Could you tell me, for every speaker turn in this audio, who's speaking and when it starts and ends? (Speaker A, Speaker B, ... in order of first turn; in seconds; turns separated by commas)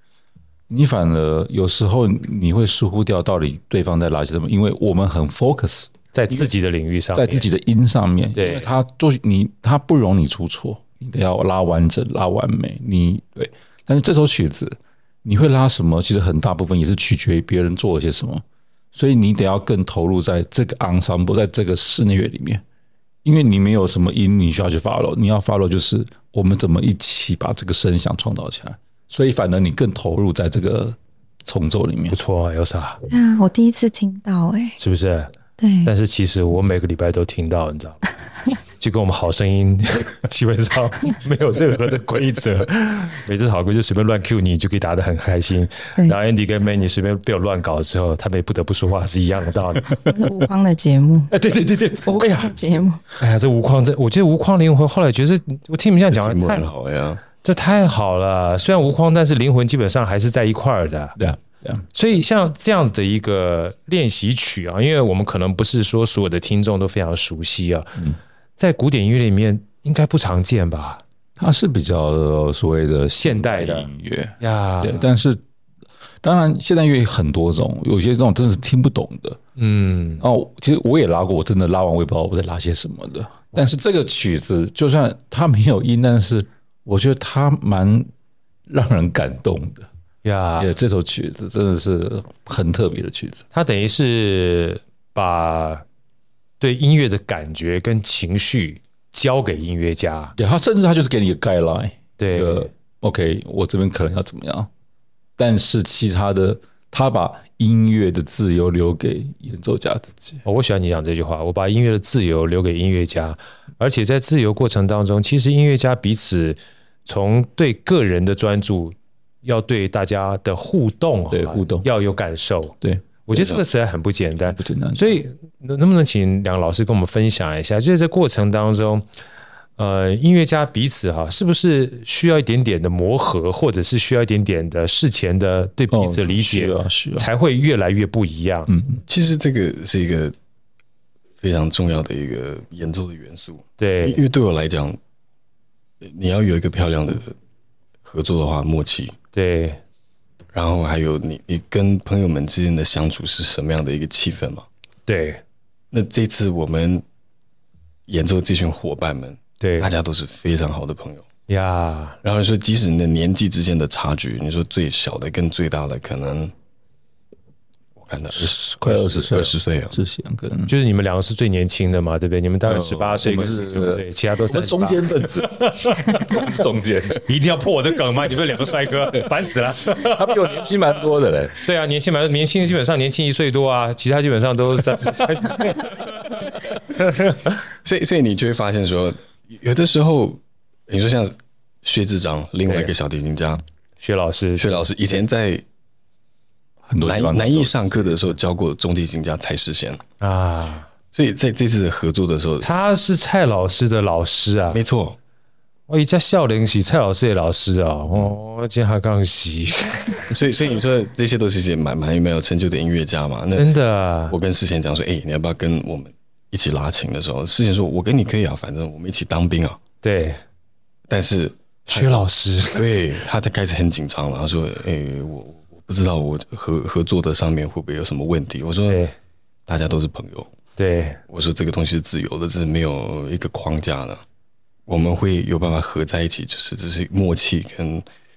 Speaker A: 0.7-6.4, Speaker B: 6.1-7.5, Speaker A: 7.2-18.4, Speaker B: 8.3-8.7, Speaker A: 18.9-22.6, Speaker A: 23.2-32.2, Speaker B: 32.1-33.0, Speaker C: 33.1-34.8, Speaker B: 34.8-35.3, Speaker C: 35.6-35.9, Speaker B: 35.9-38.0, Speaker B: 38.8-50.0, Speaker C: 49.9-51.3, Speaker B: 51.3-56.7, Speaker C: 52.1-53.0, Speaker D: 56.1-57.2, Speaker B: 57.4-61.1, Speaker A: 61.2-61.9, Speaker B: 61.9-68.0, Speaker B: 68.6-71.0, Speaker A: 71.4-75.4, Speaker B: 73.2-73.9, Speaker B: 74.4-75.1, Speaker A: 76.2-79.4, Speaker B: 79.6-80.2, Speaker A: 80.2-88.1, Speaker A: 88.7-89.9, Speaker B: 90.2-90.7, Speaker A: 90.6-93.4, Speaker B: 93.5-95.8, Speaker B: 96.6-100.3, Speaker A: 100.4-104.7, Speaker B: 102.2-102.7, Speaker A: 105.4-110.4, Speaker B: 110.5-122.8, Speaker A: 121.3-121.9, Speaker A: 122.8-123.6, Speaker B: 123.3-129.1, Speaker A: 124.5-125.2, Speaker B: 129.8-138.7, Speaker A: 135.9-137.3, Speaker A: 138.7-139.0, Speaker D: 139.1-140.3, Speaker D: 141.4-145.0, Speaker B: 143.8-144.2, Speaker D: 146.0-147.3, Speaker D: 148.0-149.2, Speaker B: 149.3-149.8, Speaker D: 150.5-154.7, Speaker B: 155.1-155.4, Speaker D: 155.9-157.0, Speaker D: 158.1-161.2, Speaker B: 159.6-159.9, Speaker B: 161.5-162.2, Speaker D: 162.2-166.5, Speaker D: 168.0-170.0, Speaker A: 168.3-170.7, Speaker B: 170.7-176.5, Speaker A: 172.7-177.2, Speaker B: 177.2-180.3, Speaker A: 179.9-181.6, Speaker B: 181.6-187.5, Speaker D: 187.8-193.6, Speaker B: 192.7-192.9, Speaker B: 194.0-194.9, Speaker D: 194.6-195.6, Speaker A: 196.9-198.1, Speaker D: 197.0-200.0, Speaker B: 200.2-200.9, Speaker D: 201.1-202.7, Speaker B: 202.6-204.8, Speaker D: 204.7-205.2, Speaker B: 205.9-210.3, Speaker D: 210.3-213.7, Speaker B: 213.5-214.3, Speaker D: 214.3-219.8, Speaker B: 220.0-220.4, Speaker D: 221.1-222.2, Speaker B: 221.9-222.9, Speaker D: 222.7-229.0, Speaker B: 228.9-229.1, Speaker D: 229.7-230.5, Speaker B: 230.8-231.2, Speaker D: 231.3-234.2, Speaker D: 234.9-238.0